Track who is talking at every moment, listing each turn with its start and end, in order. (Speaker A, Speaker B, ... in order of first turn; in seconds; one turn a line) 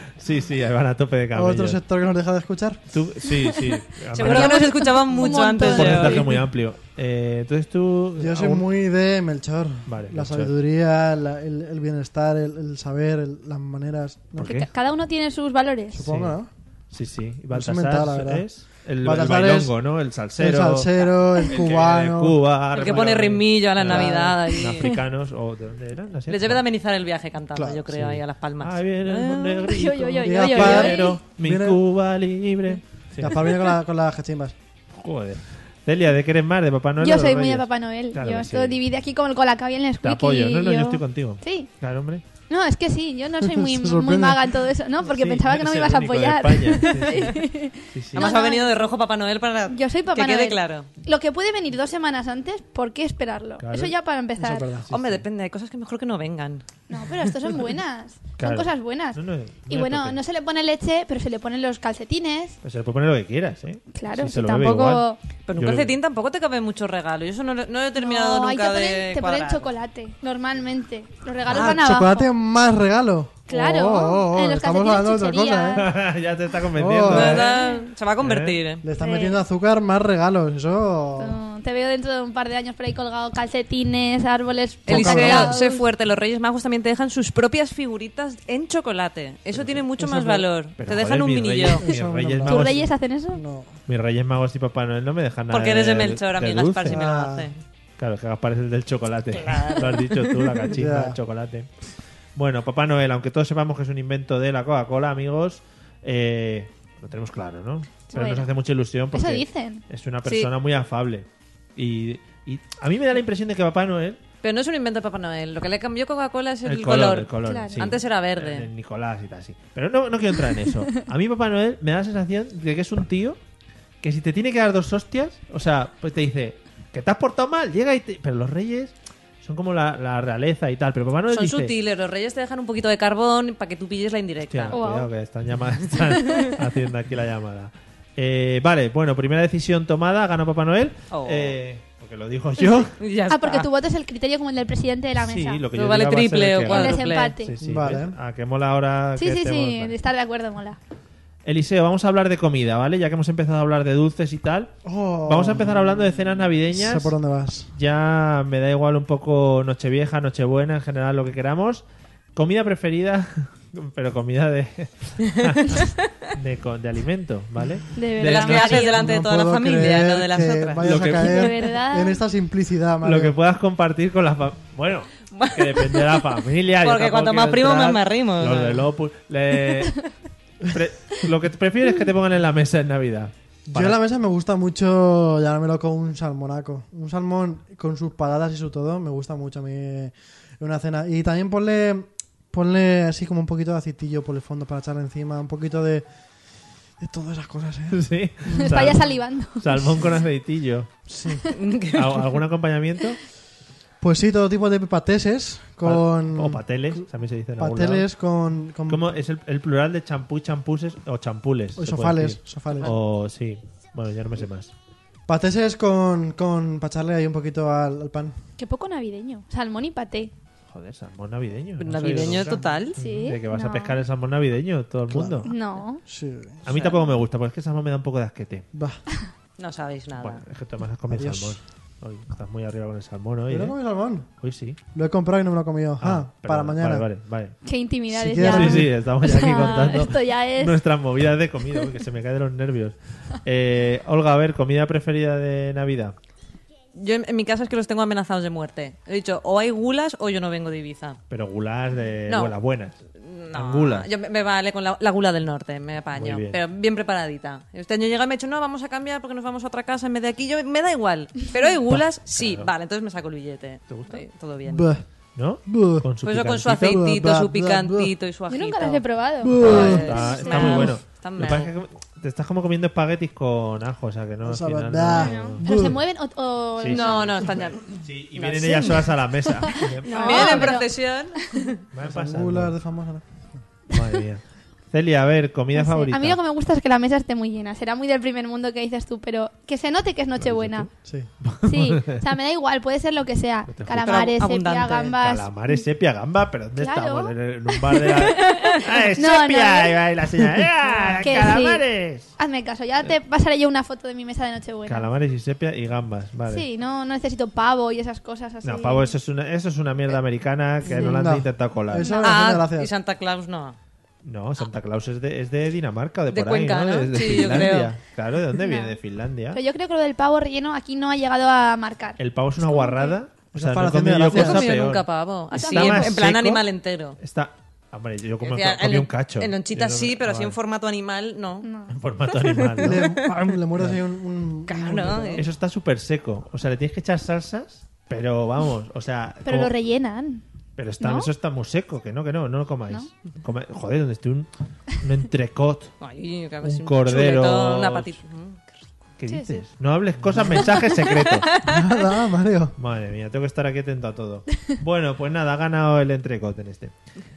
Speaker A: 0.2-1.8
Speaker B: 1.3-2.8
Speaker A: 2.9-4.7
Speaker C: 3.3-6.4
Speaker D: 4.2-6.3
Speaker A: 5.6-8.7
Speaker B: 8.2-14.5
Speaker A: 9.9-10.5
Speaker A: 14.4-14.7
Speaker C: 14.4-16.1
Speaker B: 15.9-16.5
Speaker A: 16.1-16.4
Speaker A: 16.9-26.6
Speaker B: 17.5-18.5
Speaker B: 19.0-19.7
Speaker B: 20.4-22.4
Speaker D: 22.7-24.9
Speaker B: 23.8-24.4
Speaker D: 26.3-29.6
Speaker B: 27.6-27.9
Speaker A: 27.9-33.5
Speaker C: 29.5-31.2
Speaker B: 30.2-31.8
Speaker B: 33.2-34.5
Speaker A: 35.0-38.8
Speaker C: 37.0-41.7
Speaker A: 40.0-42.2
Speaker C: 42.5-48.7
Speaker B: 43.4-44.5
Speaker A: 45.0-48.3
Speaker D: 48.1-50.9
Speaker C: 49.7-54.7
Speaker A: 53.6-54.0
Speaker B: 54.4-54.9
Speaker A: 54.9-55.2
Speaker D: 54.9-57.3
Speaker C: 56.9-62.6
Speaker A: 58.4-60.2
Speaker A: 62.6-65.0
Speaker C: 63.9-65.2
Speaker D: 65.5-69.7
Speaker A: 65.6-66.0
Speaker C: 68.0-72.3
Speaker B: 71.5-75.9
Speaker C: 73.5-75.9
Speaker A: 75.7-77.5
Speaker B: 76.8-77.5
Speaker D: 77.1-78.8
Speaker C: 77.4-77.9
Speaker A: 78.2-78.6
Speaker B: 78.8-81.4
Speaker C: 79.0-79.4
Speaker C: 81.2-85.9
Speaker B: 84.9-85.5
Speaker D: 84.9-91.8
Speaker A: 89.5-89.8
Speaker B: 90.0-90.5
Speaker A: 90.8-92.8
Speaker B: 91.8-93.7
Speaker C: 92.4-93.4
Speaker A: 93.9-97.0
Speaker D: 95.5-97.6
Speaker B: 96.9-97.5
Speaker A: 98.0-101.7
Speaker D: 99.3-100.7
Speaker B: 100.7-101.2
Speaker A: 102.3-114.2
Speaker C: 108.1-108.5
Speaker C: 109.1-109.8
Speaker D: 114.4-118.7
Speaker A: 116.7-123.4
Speaker C: 117.5-117.9
Speaker A: 124.0-131.7
Speaker D: 131.3-134.8
Speaker A: 134.5-142.9
Speaker C: 134.7-135.1
Speaker D: 141.1-141.5
Speaker C: 142.6-145.6
Speaker D: 143.0-143.7
Speaker A: 145.2-149.9
Speaker D: 145.7-147.4
Speaker C: 146.7-147.6
Speaker B: 147.6-148.2
Speaker C: 149.2-150.8
Speaker A: 151.4-157.2
Speaker B: 154.8-156.1
Speaker B: 156.7-157.7
Speaker A: 157.7-161.8
Speaker A: 162.3-169.0
Speaker D: 165.6-166.0
Speaker C: 167.9-169.0
Speaker D: 168.2-170.9
Speaker B: 168.9-173.3
Speaker A: 170.8-171.5
Speaker C: 171.0-172.2
Speaker A: 173.0-180.0
Speaker D: 175.3-178.9
Speaker A: 180.6-184.0
Speaker B: 183.7-196.1
Speaker B: 197.0-198.9
Speaker A: 197.9-200.9
Speaker C: 198.5-200.1
Speaker B: 201.1-201.4
Speaker D: 201.5-202.3
Speaker A: 201.9-203.2
Speaker B: 204.0-207.1
Speaker A: 205.8-208.1
Speaker B: 207.6-209.0
Speaker A: 208.9-214.7
Speaker B: 211.8-212.9
Speaker B: 215.3-218.3
Speaker C: 218.6-220.3
Speaker A: 220.7-225.6
Speaker D: 221.8-223.0
Speaker C: 223.0-224.0
Speaker B: 225.1-225.5
Speaker C: 225.4-226.0
Speaker B: 226.0-226.6
Speaker A: 226.6-228.7
Speaker D: 226.7-227.0
Speaker B: 228.7-229.0
Speaker D: 229.6-230.4
Speaker A: 230.2-233.8
Speaker B: 231.1-231.6
Speaker B: 233.5-234.3
Speaker A: 234.4-234.8
Speaker B: 234.9-237.1
Speaker A: 236.0-237.6
Speaker C: 237.6-240.8
Speaker B: 238.1-238.9
Speaker A: 238.4-246.2
Speaker D: 246.9-251.2
Speaker A: 251.3-253.0
Speaker D: 252.3-252.6
Speaker D: 253.2-264.9
Speaker A: 253.5-254.1
Speaker A: 256.1-256.6
Speaker A: 261.9-262.7
Speaker A: 263.9-264.2
Speaker B: 264.7-265.0
Speaker A: 265.4-267.0
Speaker B: 265.6-266.1
Speaker D: 266.2-271.7
Speaker B: 266.8-268.1
Speaker C: 268.5-271.0
Speaker B: 269.4-270.0
Speaker A: 269.6-275.7
Speaker B: 274.4-276.0
Speaker C: 275.1-277.5
Speaker A: 276.8-280.8
Speaker D: 276.9-279.1
Speaker C: 279.5-280.9
Speaker D: 280.1-281.8
Speaker A: 281.9-282.8
Speaker B: 282.0-283.6
Speaker A: 283.9-286.4
Speaker C: 285.7-290.9
Speaker A: 290.4-292.2
Speaker B: 291.0-291.3
Speaker C: 291.6-295.8
Speaker A: 293.7-294.2
Speaker D: 294.0-295.1
Speaker A: 295.2-302.4
Speaker C: 296.8-300.0
Speaker D: 300.9-301.5
Speaker C: 301.2-305.1
Speaker A: 304.9-306.7
Speaker C: 306.5-309.1
Speaker A: 308.6-312.1
Speaker C: 310.9-311.2
Speaker B: 311.0-312.9
Speaker C: 311.9-312.4
Speaker D: 312.2-313.8
Speaker A: 314.2-319.6
Speaker D: 316.3-317.9
Speaker C: 318.5-319.0
Speaker C: 319.5-323.2
Speaker A: 322.2-326.6
Speaker B: 323.5-324.7
Speaker D: 324.2-327.2
Speaker C: 325.6-326.1
Speaker A: 327.2-330.6
Speaker D: 328.4-331.7
Speaker C: 331.6-331.9
Speaker A: 331.9-333.1
Speaker D: 332.3-333.6
Speaker B: 332.8-335.5
Speaker D: 334.7-335.5
Speaker A: 335.4-339.7
Speaker C: 339.4-340.4
Speaker A: 340.8-345.9
Speaker C: 341.0-341.3
Speaker D: 346.0-348.9
Speaker A: 346.6-348.1
Speaker A: 349.2-351.5
Speaker C: 349.3-349.6
Speaker B: 350.3-350.7
Speaker D: 351.3-351.9
Speaker B: 351.6-352.7
Speaker A: 352.8-356.9